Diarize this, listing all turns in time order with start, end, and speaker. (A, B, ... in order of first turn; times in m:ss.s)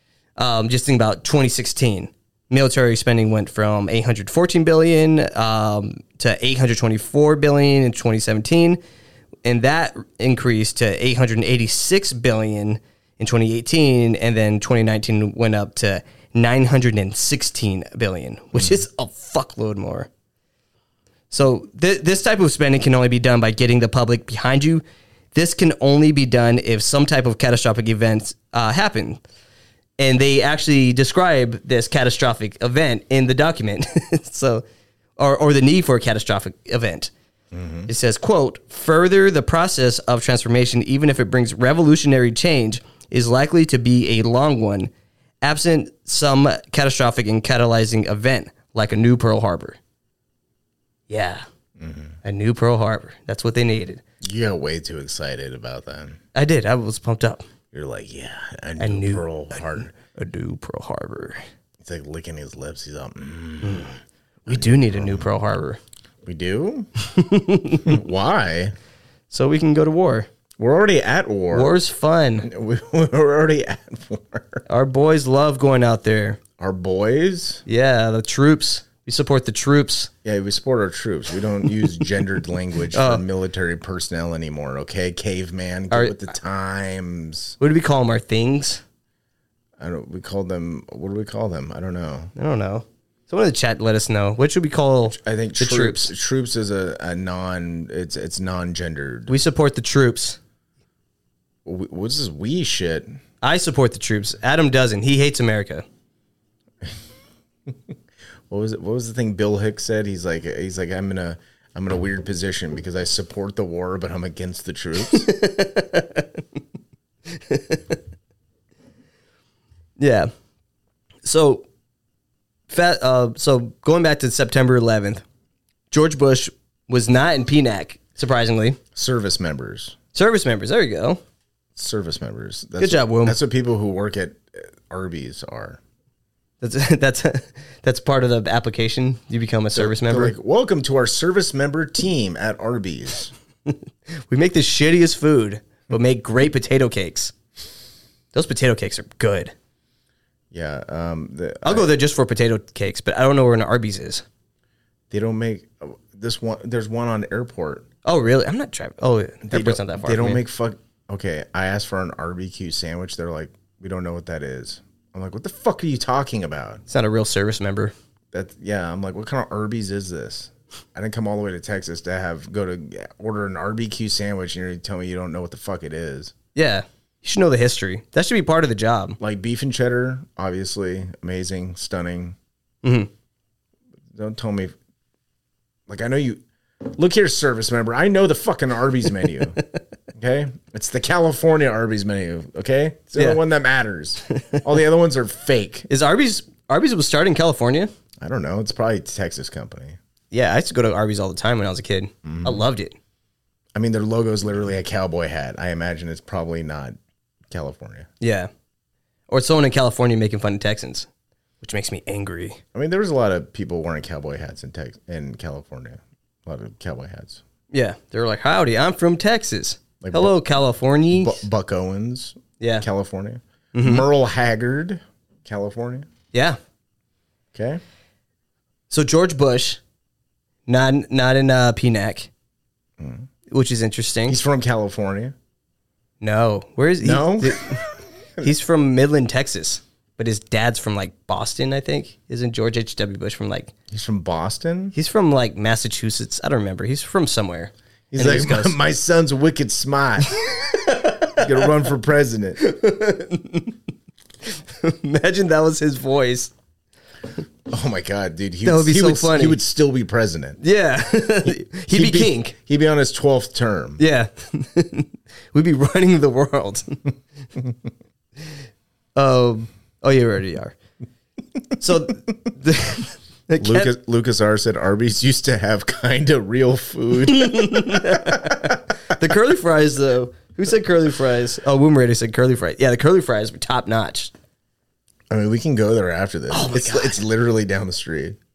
0:00.4-0:08.8 A
0:09.4-0:20.1 A
0:18.5-0:18.8 B
0:21.3-0:24.8 A
0:25.3-0:29.2 A
0:30.0-0:34.6 A
0:35.2-0:37.1 A
0:37.5-0:37.9 B
0:37.9-0:44.9 A
0:45.4-0:49.8 A
0:51.1-0:51.4 A
0:51.8-0:52.2 B
0:52.2-0:54.0 A
0:54.2-0:56.2 B
0:56.3-0:57.4 A
0:57.7-0:59.9 B
0:58.8-0:59.2 A
0:59.9-1:01.4 A
1:01.8-1:05.3 B
1:03.6-1:03.9 A
1:04.5-1:05.8 A
1:06.2-1:06.9 B
1:07.0-1:08.0 A
1:07.8-1:08.7 B
1:09.3-1:10.3 A
1:10.6-1:11.7 B
1:11.5-1:12.5 A
1:12.4-1:14.6 B
1:14.7-1:16.4 A
1:16.6-1:17.6 B
1:17.6-1:20.1 A
1:20.2-1:27.6 B
1:22.9-1:23.2 A
1:25.9-1:26.2 A
1:27.6-1:28.8 A
1:29.8-1:32.3 B
1:32.4-1:36.1 A
1:35.1-1:39.4 B
1:39.3-1:40.4 A
1:41.6-1:43.2 B
1:43.4-1:45.8 A
1:48.5-1:55.3 B
1:55.1-1:56.3 A
1:57.3-1:58.0 A
2:00.0-2:00.3 A
2:01.2-2:01.6 A
2:02.7-2:05.2 A
2:05.9-2:08.8 A
2:08.9-2:10.0 B
2:10.1-2:11.2 A
2:11.8-2:15.8 B
2:12.8-2:13.4 A
2:16.6-2:20.3 A
2:19.7-2:23.3 B
2:23.6-2:27.3 A
2:28.3-2:29.5 A
2:30.5-2:31.9 B
2:31.6-2:34.2 A
2:35.1-2:37.9 B
2:38.0-2:40.4 A
2:39.4-2:46.8 B
2:46.9-2:47.9 A
2:48.3-2:56.3 B
2:56.5-2:59.2 A
2:59.2-3:02.4 B
3:02.8-3:03.1 A
3:04.1-3:04.7 B
3:05.9-3:09.6 B
3:10.1-3:15.9 B
3:15.9-3:17.9 A
3:18.2-3:20.0 B
3:20.3-3:23.0 A
3:22.2-3:22.6 B
3:23.7-3:27.0 B
3:27.5-3:28.1 B
3:28.2-3:28.5 A
3:29.3-3:31.1 A
3:31.6-3:32.6 A
3:32.7-3:37.4 B
3:37.7-3:41.4 A
3:40.0-3:40.4 B
3:41.1-3:46.1 B
3:42.6-3:42.8 A
3:43.7-3:44.0 A
3:46.3-3:46.6 A
3:47.5-3:47.8 B
3:48.9-3:49.8 A
3:50.7-3:52.3 A
3:53.0-3:53.3 B
3:53.5-3:54.4 A
3:54.3-3:55.3 B
3:56.2-3:57.8 A
3:57.0-3:58.5 B
3:58.4-4:03.7 A
4:03.9-4:04.9 B
4:04.9-4:08.8 A
4:08.1-4:12.6 B
4:10.5-4:11.4 A
4:12.6-4:13.8 A
4:14.4-4:16.5 A
4:17.7-4:20.6 B
4:18.6-4:19.6 A
4:20.6-4:22.5 A
4:21.4-4:24.0 B
4:24.0-4:27.0 A
4:29.2-4:30.8 A
4:31.8-4:33.9 A
4:33.6-4:38.8 B
4:37.2-4:44.3 A
4:45.3-4:48.4 B
4:46.5-4:47.2 A